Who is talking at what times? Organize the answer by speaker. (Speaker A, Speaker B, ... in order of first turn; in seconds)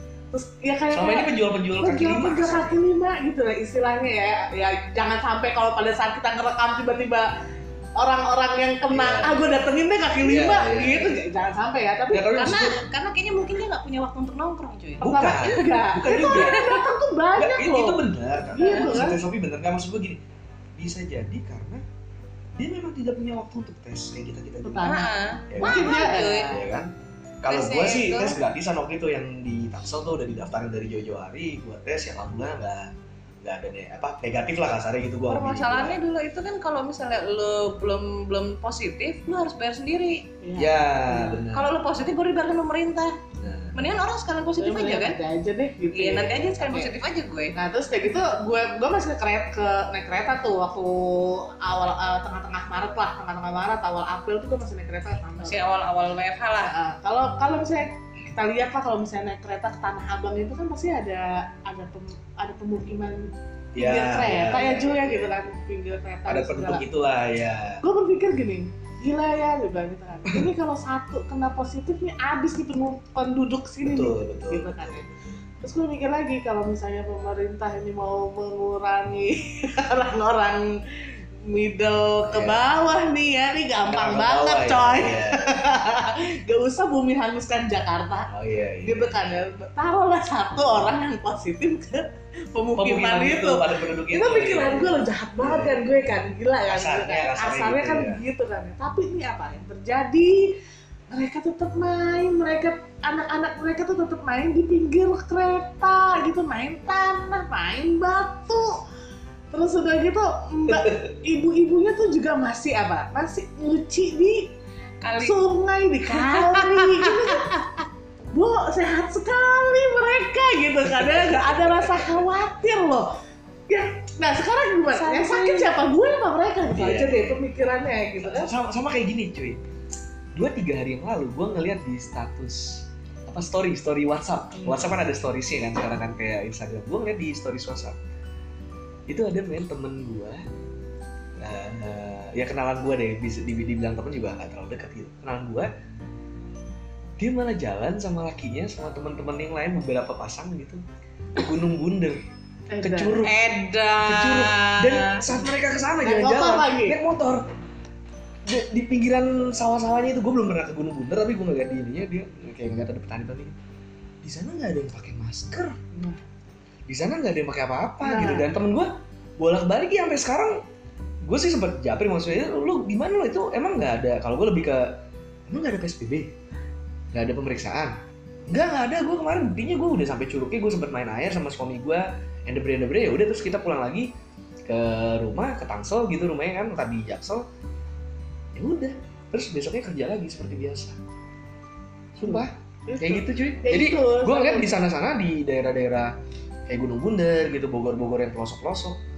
Speaker A: 0.3-7.3, 8.0-12.3, 15.0-19.2, 24.6-26.6, 40.4-41.4, 44.6-46.9, 47.5-55.7, 56.6-66.8, 67.8-75.1, 75.6-80.7, 81.4-88.3, 88.8-100.5, 101.1-108.8, 109.5-114.5, 115.2-117.6, 118.3-123.1, 123.7-128.5, 134.6-134.9, 152.7-153.2, 156.0-157.0, 165.9-166.2, 168.0-168.5, 192.2-194.8
Speaker B: 0.9-2.8, 8.9-9.5, 10.2-11.2, 12.1-12.8, 15.0-16.6, 17.4-20.2, 20.8-21.8, 22.6-24.9, 25.5-26.9, 27.4-36.0, 40.6-41.8, 43.4-43.8, 63.7-65.3, 66.2-67.8, 73.8-75.1, 82.3-82.7, 83.9-85.6, 88.3-89.1, 92.8-95.9, 96.7-98.2, 126.6-127.4, 128.2-129.6, 130.3-138.0, 139.1-140.4, 141.4-145.7, 147.2-150.8, 151.4-152.2, 152.8-157.4, 158.5-163.6, 164.2-165.8, 166.9-170.6, 171.2-174.9, 175.5-176.3, 177.1-177.9, 178.5-184.1, 184.7-187.5, 188.6-191.0, 192.2-196.1, 196.7-199.0
Speaker C: 12.3-15.6, 16.2-16.8, 18.6-19.0, 24.8-26.6, 27.5-28.4, 35.3-40.3, 41.5-43.1, 43.8-45.2, 45.9-47.6, 55.4-56.7, 115.0-115.4, 116.1-117.6, 124.9-125.8, 153.2-155.4